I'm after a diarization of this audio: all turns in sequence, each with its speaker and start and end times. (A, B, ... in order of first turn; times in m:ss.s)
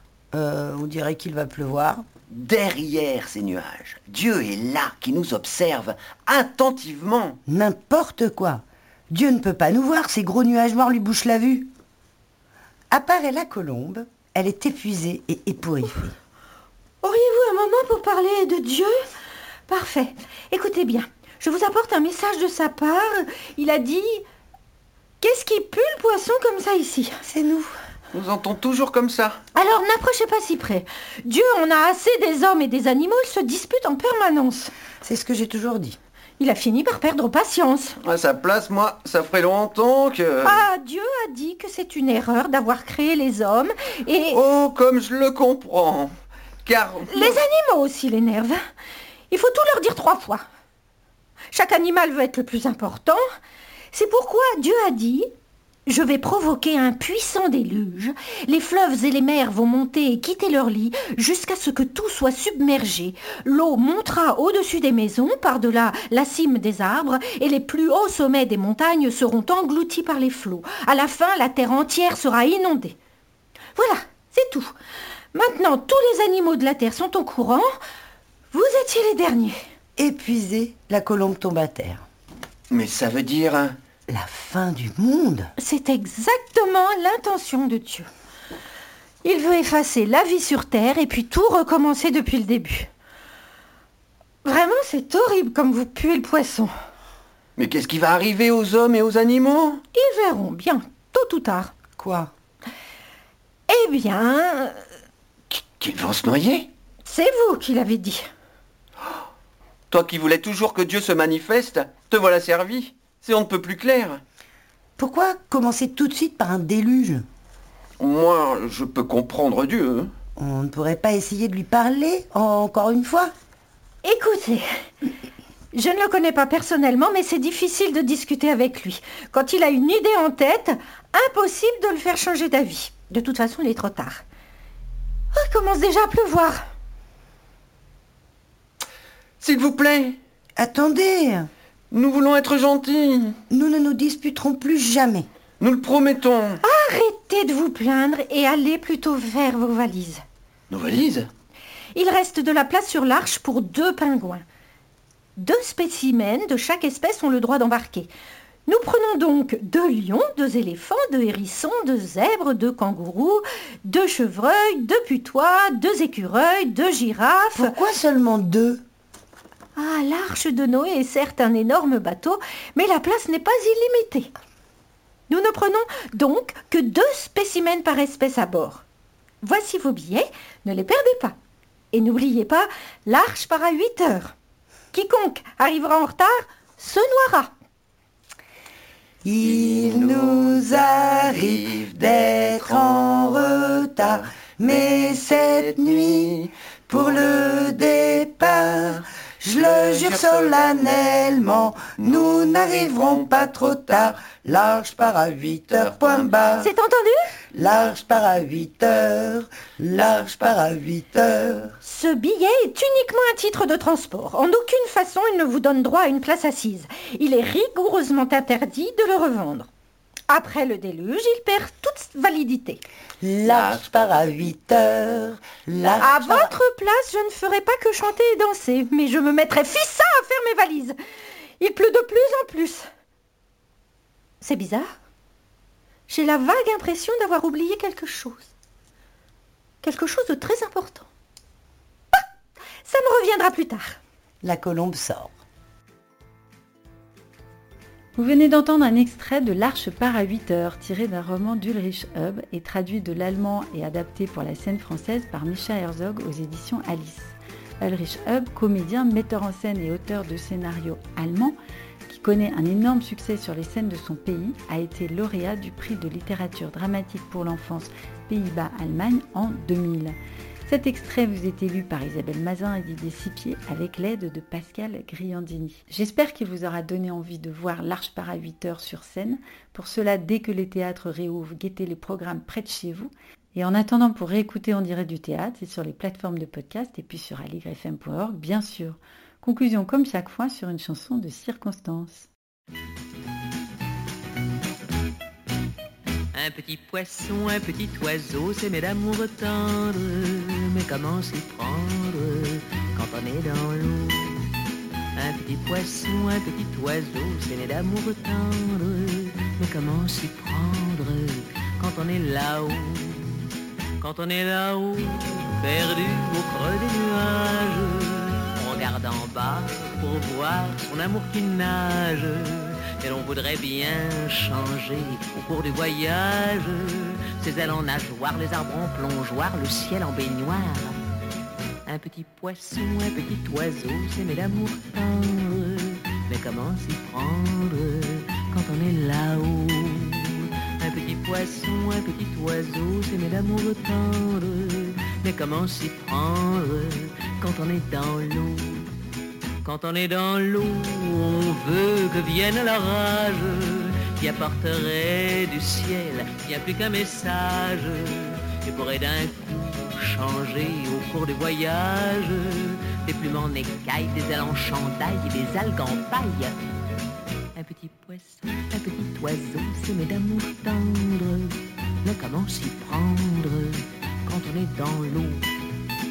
0:00.3-0:02.0 A
0:02.3-0:07.4 B
0:07.5-0:11.7 A
0:12.9-0:16.2 A
0:17.0-0:18.9 C
0:19.7-0:24.2 C
0:25.2-0:27.2 C
0:27.2-0:27.8 A
0:28.1-0:29.4 B
0:29.6-0:34.7 C
0:35.0-0:36.0 A
0:36.4-0:38.0 C
0:38.0-0:40.6 B
0:40.4-0:44.4 C
0:44.3-0:46.1 B
0:46.6-0:47.4 B
0:47.1-0:48.6 C
0:49.3-0:50.4 C
0:51.5-0:53.2 C
0:53.9-0:55.3 C
0:55.9-1:13.0 C
1:13.8-1:14.7 C
1:15.3-1:17.7 C
1:18.5-1:19.6 C
1:20.0-1:22.0 A
1:22.7-1:23.8 B
1:24.1-1:25.5 A
1:25.6-1:28.1 C
1:29.2-1:32.9 C
1:34.4-1:36.7 C
1:37.6-1:39.8 B
1:39.9-1:41.7 C
1:42.0-1:42.3 A
1:43.7-1:44.8 C
1:45.5-1:46.7 B
1:47.0-1:48.3 C
1:49.9-1:54.2 B
1:55.0-1:57.2 A
1:58.0-2:00.1 B
2:00.4-2:03.3 A
2:04.0-2:04.7 C
2:05.7-2:14.2 C
2:15.3-2:16.6 C
2:19.4-2:20.2 B
2:20.6-2:21.5 A
2:21.9-2:23.4 B
2:23.5-2:25.3 A
2:25.6-2:26.6 B
2:26.6-2:30.2 C
2:30.7-2:31.3 B
2:32.0-2:34.4 C
2:35.4-2:38.1 C
2:38.7-2:47.7 C
2:47.6-2:48.8 A
2:49.8-2:54.3 C
2:55.3-2:58.8 C
2:59.4-3:01.4 C
3:01.9-3:04.3 C
3:04.9-3:07.5 C
3:09.2-3:26.7 A
3:26.1-3:26.6 B
3:26.6-3:27.3 C
3:27.5-3:31.7 A
3:31.8-3:39.7 C
3:40.3-3:42.8 C
3:43.2-3:46.5 A
3:43.4-3:44.0 B
3:46.0-3:51.0 C
3:51.6-3:52.9 C
3:54.4-3:54.9 C
3:56.1-3:58.5 C
3:59.8-4:01.1 C
4:02.8-4:04.0 C
4:04.4-4:05.3 A
4:08.2-4:30.2 D
4:30.7-4:52.3 D
4:56.3-5:04.5 E
5:05.2-5:13.5 E
5:14.0-5:31.0 E
5:31.9-5:48.9 E
5:49.6-6:06.6 E
6:07.6-6:15.4 E